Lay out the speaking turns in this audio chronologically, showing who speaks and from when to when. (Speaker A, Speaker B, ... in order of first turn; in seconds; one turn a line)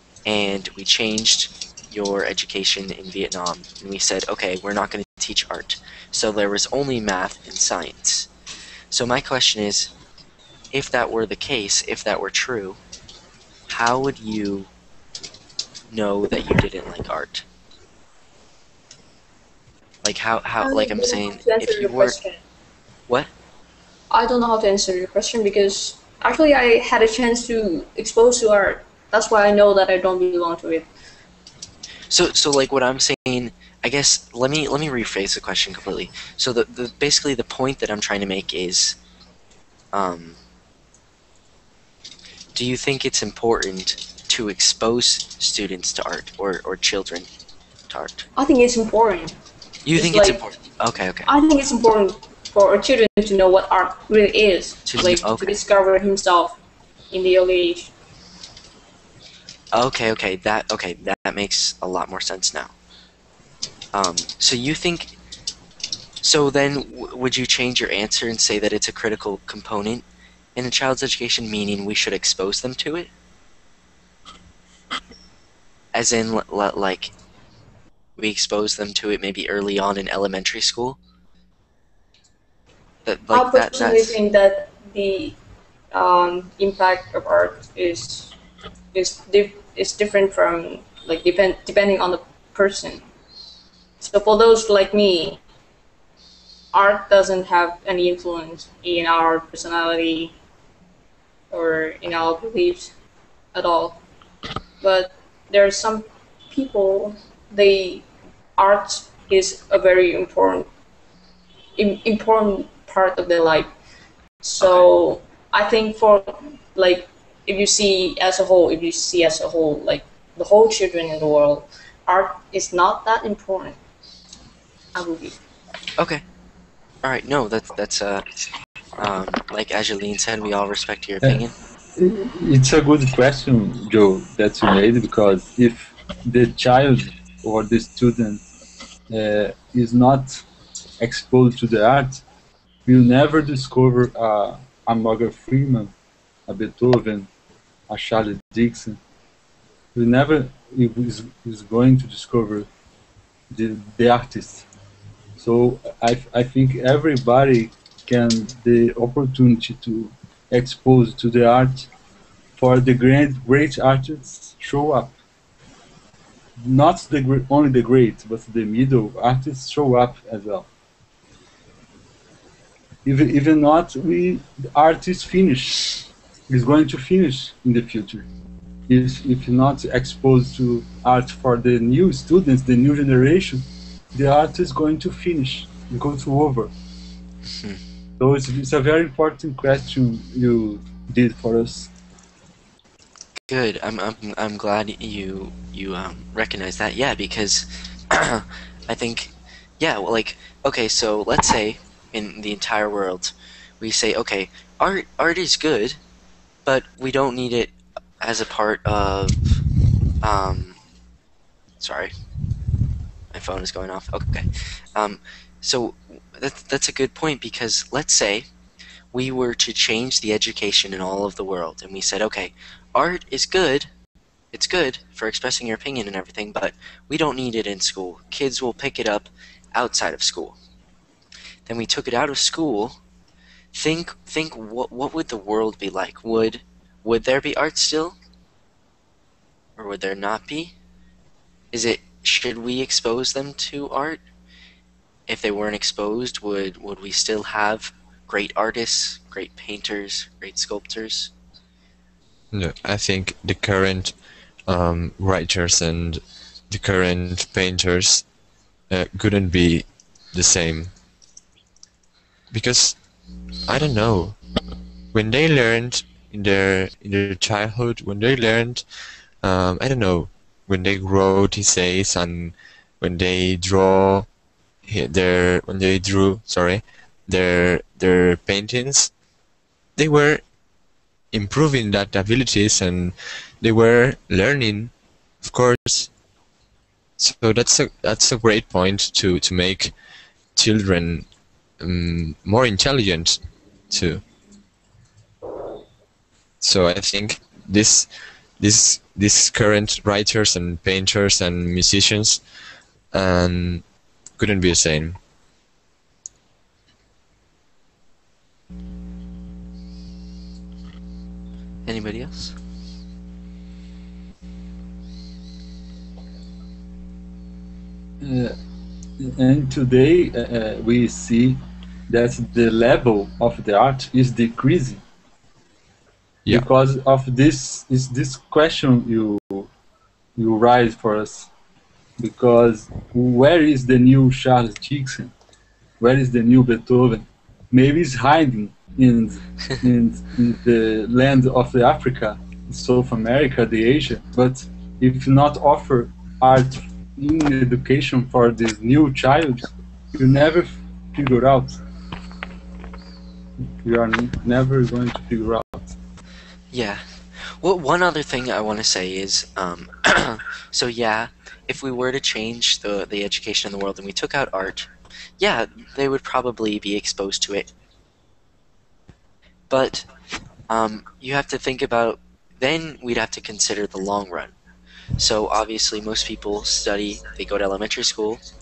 Speaker A: 0.2-8.3
Speaker A: 8.9-9.9
Speaker A: 10.7-12.8
Speaker A: 13.7-14.7
Speaker A: 15.9-17.4
Speaker A: 20.0-22.2
Speaker B: 20.6-22.4
Speaker B: 24.1-30.9
Speaker A: 32.1-39.0
Speaker A: 39.9-40.4
Speaker A: 42.5-47.3
Speaker A: 47.9-48.3
Speaker B: 48.4-49.4
Speaker A: 49.8-51.3
Speaker B: 49.9-50.4
Speaker B: 51.3-56.6
Speaker A: 54.9-55.6
Speaker B: 57.1-57.9
Speaker A: 59.7-62.7
Speaker A: 63.9-65.2
Speaker A: 66.2-73.1
Speaker A: 75.9-77.1
Speaker A: 78.2-81.0
Speaker A: 83.0-84.2
Speaker B: 83.3-85.4
Speaker B: 85.9-88.3
Speaker B: 88.9-93.0
Speaker B: 94.0-95.4
Speaker B: 96.7-100.3
Speaker B: 101.5-102.9
Speaker B: 103.5-104.0
Speaker B: 104.8-108.0
Speaker B: 108.6-110.7
Speaker B: 111.8-113.7
Speaker B: 114.4-123.8
Speaker B: 124.9-125.4
Speaker A: 126.0-126.2
Speaker A: 127.0-128.3
Speaker A: 129.0-131.5
Speaker C: 131.9-138.4
Speaker C: 139.1-140.4
Speaker C: 141.0-142.2
Speaker C: 142.9-145.9
Speaker C: 146.5-147.3
Speaker C: 147.9-149.0
Speaker C: 149.9-152.7
Speaker C: 153.5-154.7
Speaker C: 155.4-161.9
Speaker C: 162.6-165.1
Speaker C: 166.6-170.7
Speaker C: 173.1-178.3
Speaker C: 178.9-186.7
Speaker A: 187.5-187.8
Speaker C: 188.2-191.9
Speaker A: 193.5-206.0
Speaker A: 206.6-209.6
Speaker A: 210.2-210.8
Speaker A: 211.8-212.1
Speaker A: 213.3-218.5
Speaker A: 219.1-223.9
Speaker A: 224.5-230.6
Speaker A: 231.7-233.0
Speaker A: 233.7-238.2
Speaker A: 239.8-240.7
Speaker A: 241.7-244.2
Speaker A: 245.3-251.3
Speaker D: 252.5-254.1
Speaker D: 254.7-258.2
Speaker D: 258.9-260.9
Speaker D: 262.5-263.0
Speaker D: 263.6-264.4
Speaker D: 265.1-268.8
Speaker D: 269.4-274.3
Speaker D: 274.9-279.1
Speaker D: 280.0-280.4
Speaker D: 281.3-286.1
Speaker D: 287.2-289.9
Speaker D: 290.6-291.3
Speaker D: 291.8-294.2
Speaker D: 296.6-302.4
Speaker D: 303.1-303.8
Speaker D: 304.4-305.2
Speaker A: 311.9-312.6
Speaker C: 318.2-318.6
Speaker C: 319.2-325.0
Speaker C: 326.5-329.7
Speaker C: 330.4-331.5
Speaker C: 332.2-335.3
Speaker C: 336.0-351.8
Speaker C: 353.8-355.9
Speaker A: 356.7-367.7
Speaker A: 369.7-370.1
Speaker A: 370.7-374.6
Speaker A: 375.2-378.4